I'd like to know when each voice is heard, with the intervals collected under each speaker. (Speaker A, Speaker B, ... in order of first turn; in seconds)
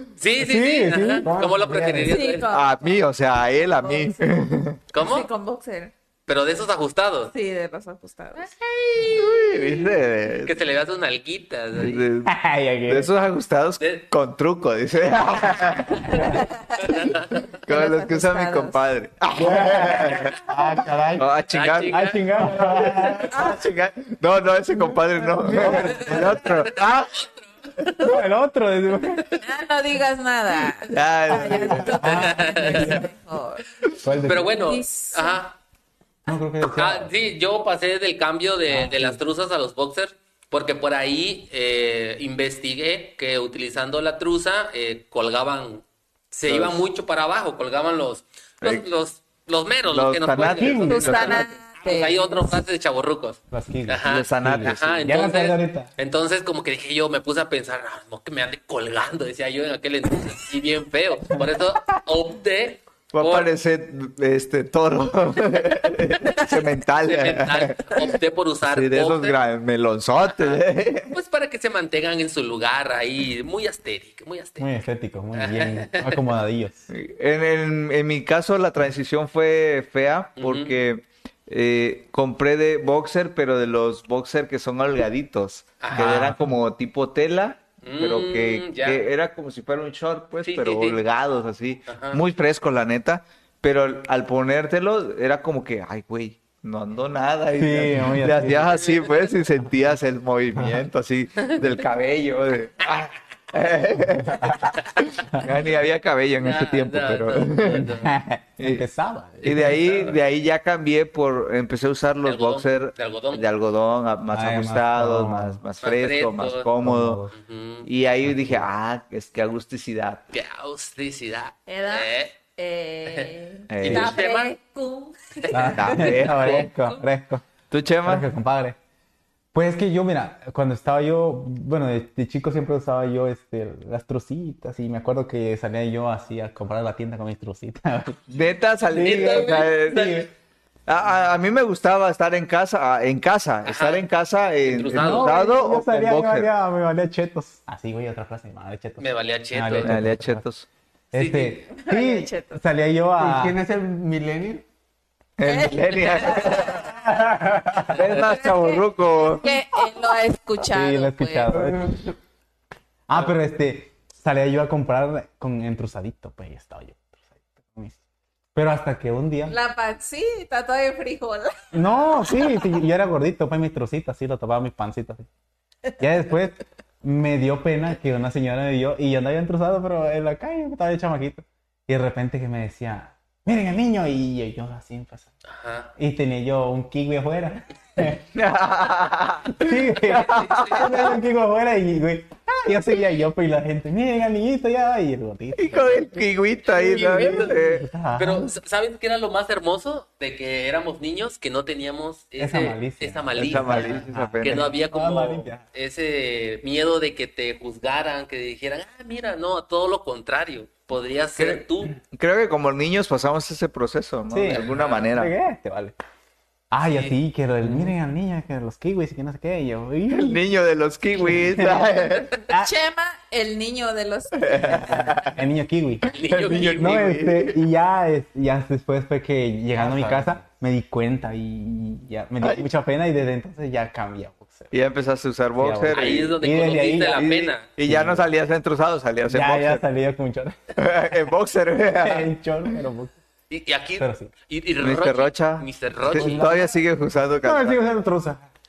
Speaker A: 0.2-2.5, 4.9-5.3, 6.3-7.3, 8.5-9.8, 10.4-12.0, 16.9-17.2, 21.5-22.2, 26.4-26.7, 27.8-28.1, 32.0-33.0, 34.3-35.6, 36.6-63.5, 67.0-69.4, 70.3-74.7, 75.3-76.2, 80.4-80.8, 85.8-86.4, 87.8-89.0, 90.4-91.0, 91.9-92.2, 106.4-108.1, 109.4-110.2, 112.2-113.5, 115.8-116.7, 117.3-117.9, 120.3-122.3, 123.1-124.5, 125.4-125.7, 138.9-140.3, 143.7-144.1, 144.6-145.4, 149.0-150.0, 151.1-151.6, 185.5-185.9, 190.2-190.9, 196.7-197.6, 198.2-212.0, 214.5-215.1, 226.1-227.1, 235.9-237.7, 243.5-246.6
Speaker B: 0.4-1.9, 12.2-13.1, 16.1-16.4, 19.4-20.4, 21.9-23.6, 25.4-26.5, 28.0-29.3, 31.4-33.0, 34.0-34.5, 36.3-37.1, 38.7-39.2, 50.6-51.1, 53.5-55.9, 74.6-76.8, 85.9-86.4, 97.5-98.7, 107.7-110.0, 114.3-115.6, 116.8-117.3, 118.3-118.6, 125.5-127.4, 128.0-128.8, 129.5-138.2, 138.9-140.2, 144.9-150.4, 151.1-153.6, 156.8-158.2, 160.7-161.9, 163.1-168.0, 168.6-169.6, 171.7-175.3, 176.0-185.3, 186.0-188.3, 189.5-196.1, 196.9-198.5, 202.4-205.6, 214.3-216.0, 216.7-220.4, 221.2-222.7, 224.9-226.1, 226.7-234.7, 235.6-237.3, 237.9-238.2, 239.3-240.8, 242.0-243.2, 244.0-244.3, 247.4-248.4
Speaker C: 1.2-2.1, 20.4-21.3, 22.4-23.1, 25.4-26.0, 153.2-154.7, 161.5-162.2, 229.8-230.4, 246.1-246.7
Speaker D: 2.0-3.0, 3.6-4.2, 5.0-5.9, 7.3-8.5, 16.1-17.1, 17.7-18.8, 23.3-23.6, 29.4-33.6, 34.4-35.4, 50.9-52.6, 121.7-126.8, 151.7-152.6, 155.4-156.9, 158.1-161.6, 169.5-172.6, 222.5-225.1
Speaker E: 2.5-4.8, 9.1-10.6, 11.7-16.4, 17.5-20.4, 21.2-27.2, 30.9-32.1, 32.8-33.0, 46.5-46.9, 49.9-51.6, 54.0-55.1, 63.1-68.1, 68.6-71.2, 76.9-107.9, 108.6-108.8, 109.4-117.2, 117.8-120.3, 123.7-124.2, 125.8-127.0, 127.7-128.3, 138.3-140.3, 140.9-146.5, 149.8-150.7, 155.4-157.0, 157.8-159.5, 188.3-191.2, 195.6-197.9, 203.3-204.8, 211.4-215.3, 220.1-222.3, 224.4-225.4, 226.2-227.6, 234.7-236.4, 237.1-239.8, 240.7-242.8, 244.8-247.8